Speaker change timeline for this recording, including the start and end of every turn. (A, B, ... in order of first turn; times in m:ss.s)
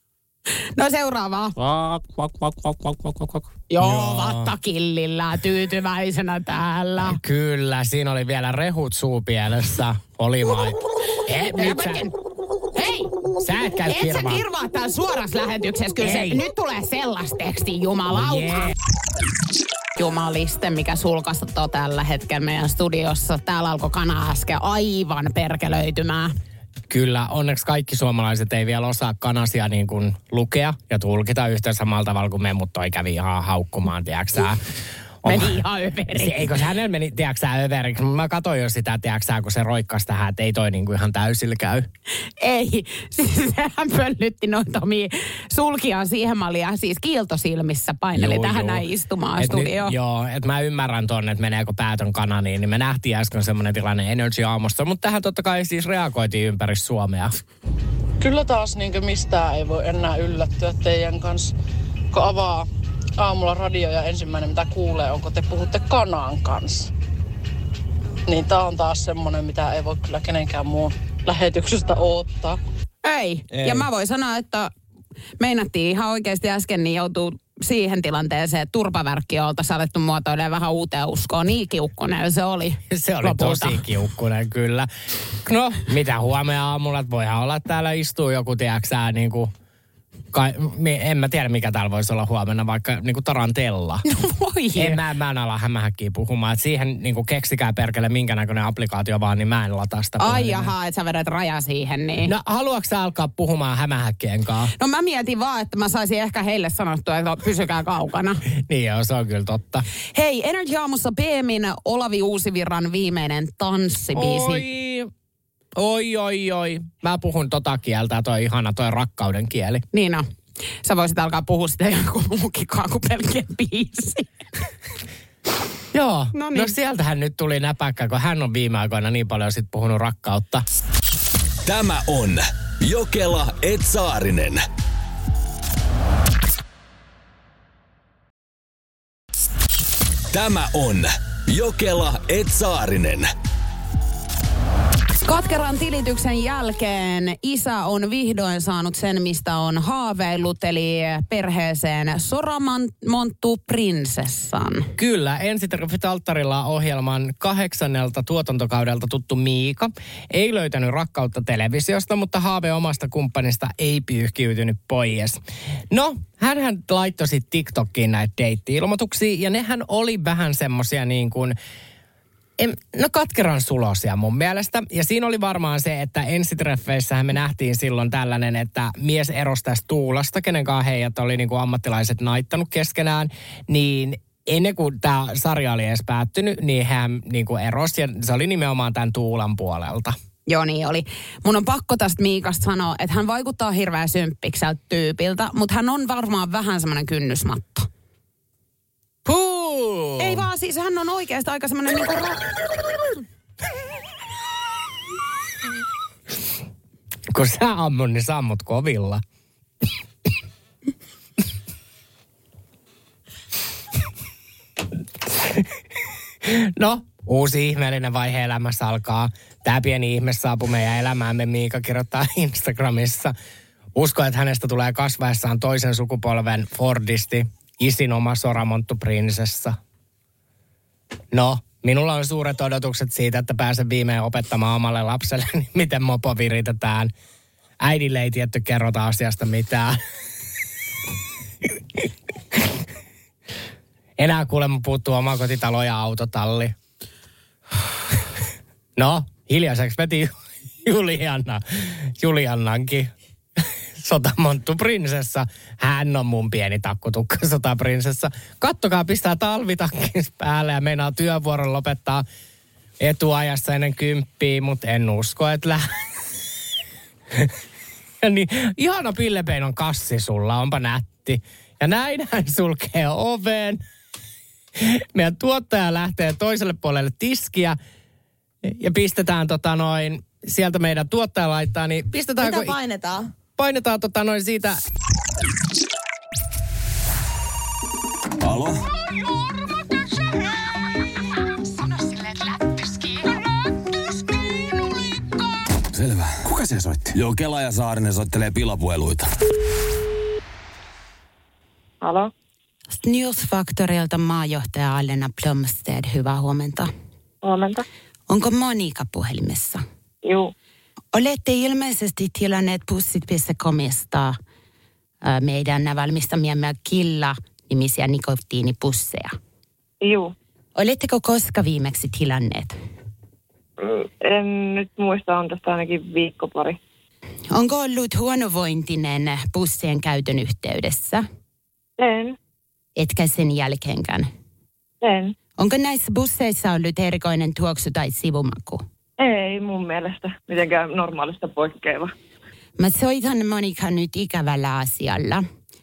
0:00.8-0:01.6 A
0:01.6-0:03.5 B
0:03.7-0:07.2 A
0:03.8-0:04.5 C
0:07.0-0:12.1 C
0:11.5-0:12.1 A
0:12.8-0:13.2 A
0:13.4-0:14.4 C
0:13.8-0:18.7 A
0:16.0-0:16.4 C
0:18.1-0:18.7 C
0:20.0-0:26.3 A
0:26.9-0:34.6 C
0:35.2-0:35.6 C
0:35.2-0:36.6 A
0:36.1-0:41.9 C
0:42.4-0:50.0 A
0:48.1-0:48.9 C
0:49.4-0:57.3 C
0:58.2-1:01.5 B
1:02.1-1:06.9 B
1:08.3-1:12.6 B
1:13.0-1:14.7 A
1:13.5-1:13.9 C
1:15.4-1:23.8 A
1:22.9-1:24.9 C
1:25.4-1:29.5 C
1:30.3-1:34.0 C
1:34.1-1:35.0 A
1:34.8-1:40.7 C
1:40.2-1:42.3 A
1:42.2-1:44.7 C
1:44.8-1:48.4 A
1:48.5-1:49.8 C
1:50.1-1:54.6 A
1:54.1-1:55.1 C
1:55.7-1:59.8 C
1:59.9-2:00.3 A
2:00.8-2:04.3 A
2:05.9-2:10.6 C
2:06.3-2:06.7 A
2:11.7-2:14.6 D
2:20.3-2:23.3 D
2:25.2-2:34.9 A
2:35.0-2:51.6 C
2:52.6-3:10.2 C
3:10.5-3:17.9 A
3:19.2-3:20.5 C
3:20.2-3:22.5 A
3:27.3-3:29.2 C
3:35.3-3:35.7 C
3:36.4-3:43.4 C
3:44.0-3:49.8 C
3:51.3-3:57.1 C
3:57.8-4:00.0 C
4:01.7-4:02.8 C
4:04.2-4:06.8 C
4:09.0-4:10.3 C
4:10.8-4:22.2 C
4:23.0-4:25.9 C
4:28.2-4:33.8 C
4:34.8-4:37.8 C
4:38.6-4:42.8 C
4:42.4-4:43.3 A
4:43.6-4:44.8 C
4:51.8-4:53.3 A
4:56.0-4:59.2 D
5:02.0-5:02.3 E
5:02.9-5:06.9 A
5:07.4-5:07.8 E
5:08.3-5:09.8 A
5:10.2-5:10.5 E
5:11.1-5:14.4 A
5:15.2-5:19.4 A
5:20.0-5:20.3 E
5:20.8-5:22.8 A
5:23.8-5:26.8 E
5:27.5-5:31.2 A
5:32.0-5:32.4 E
5:33.0-5:34.3 A
5:35.0-5:35.4 E
5:35.6-5:38.8 A
5:39.2-5:42.1 E
5:42.8-5:45.4 A